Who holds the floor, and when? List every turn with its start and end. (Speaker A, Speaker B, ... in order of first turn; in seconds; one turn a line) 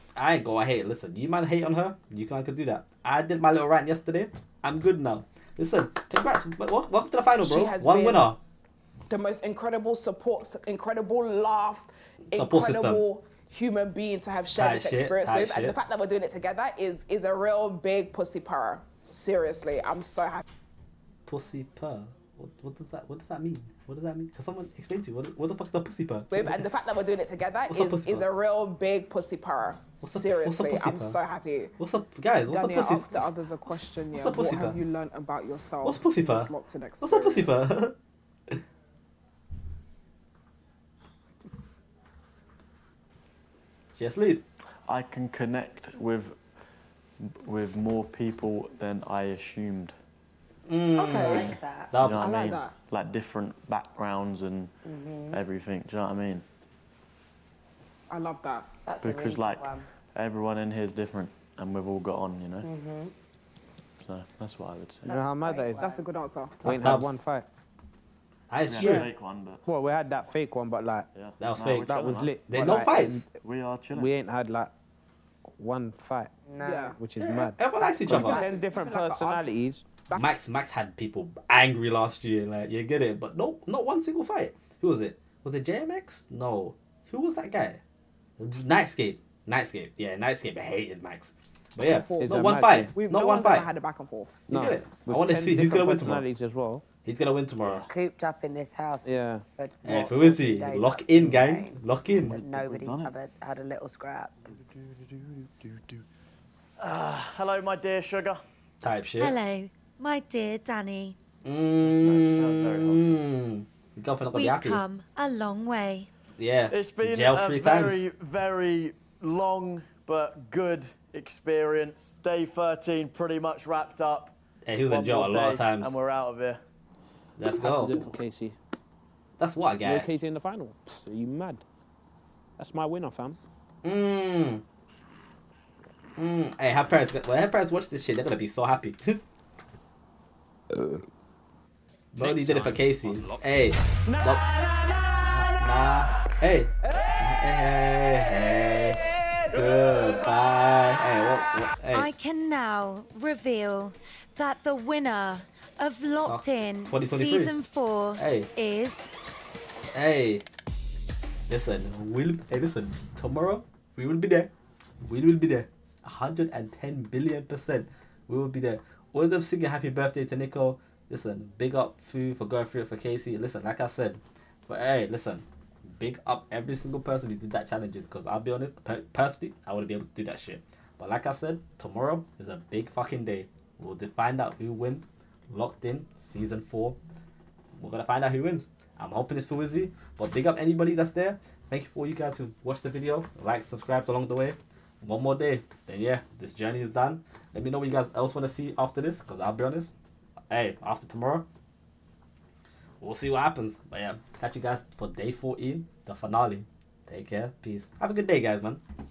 Speaker A: 0.2-8.4
Speaker B: 7.4-8.3
Speaker B: 9.1-20.4
Speaker A: 12.3-13.0
Speaker A: 14.6-15.8
Speaker A: 21.3-26.6
Speaker B: 26.3-31.7
Speaker A: 27.7-28.2
Speaker A: 30.0-31.2
Speaker A: 31.8-34.8
Speaker B: 32.5-37.7
Speaker A: 35.8-36.5
Speaker A: 37.0-38.0
Speaker A: 44.0-44.4
Speaker C: 44.9-46.4
Speaker C: 47.2-50.0
Speaker A: 50.7-52.6
Speaker B: 51.0-51.5
Speaker D: 51.2-52.0
Speaker C: 52.0-54.7
Speaker B: 52.2-52.8
Speaker D: 54.9-55.4
Speaker C: 55.3-56.5
Speaker B: 58.1-58.7
Speaker D: 58.9-59.9
Speaker C: 59.0-62.7
Speaker D: 62.6-63.1
Speaker C: 64.0-65.2
Speaker D: 65.0-66.0
Speaker E: 65.1-65.8
Speaker B: 65.8-66.6
Speaker A: 66.6-67.2
Speaker E: 66.6-67.5
Speaker A: 68.5-69.1
Speaker C: 68.7-69.6
Speaker E: 69.7-71.1
Speaker C: 71.2-72.4
Speaker A: 71.4-73.2
Speaker E: 71.9-73.3
Speaker C: 73.4-74.1
Speaker E: 73.9-74.7
Speaker E: 75.6-76.3
Speaker D: 76.5-77.0
Speaker B: 76.6-77.0
Speaker E: 77.0-79.8
Speaker A: 77.2-78.5
Speaker B: 77.8-79.5
Speaker B: 80.1-80.3
Speaker A: 80.1-87.8
Speaker A: 88.4-93.7
Speaker B: 91.8-94.4
Speaker E: 92.2-93.0
Speaker E: 94.5-96.8
Speaker A: 94.5-96.2
Speaker A: 97.0-97.9
Speaker D: 97.7-104.6
Speaker E: 99.0-99.4
Speaker A: 99.8-102.4
Speaker C: 99.8-100.2
Speaker C: 102.3-103.1
Speaker C: 104.5-106.0
Speaker C: 106.8-108.4
Speaker A: 108.8-109.4
Speaker F: 109.2-111.2
Speaker A: 111.4-114.8
Speaker C: 111.8-113.2
Speaker F: 114.3-116.1
Speaker A: 116.4-118.1
Speaker C: 116.7-124.4
Speaker A: 124.7-126.0
Speaker C: 124.9-126.6
Speaker A: 127.4-128.0
Speaker G: 127.5-128.6
Speaker A: 129.4-130.1
Speaker G: 129.8-131.6
Speaker G: 132.6-133.4
Speaker A: 133.8-134.6
Speaker A: 136.2-139.2
Speaker A: 142.2-144.4
Speaker G: 142.2-143.4
Speaker G: 144.1-145.9
Speaker A: 145.2-152.1
Speaker G: 147.0-147.3
Speaker G: 149.2-150.0
Speaker F: 151.9-159.1
Speaker A: 156.3-157.5
Speaker A: 158.2-158.5
Speaker A: 159.9-160.4
Speaker A: 161.5-164.5
Speaker A: 165.1-187.0
Speaker A: 187.8-199.9
Speaker A: 200.5-201.4
Speaker A: 203.0-208.8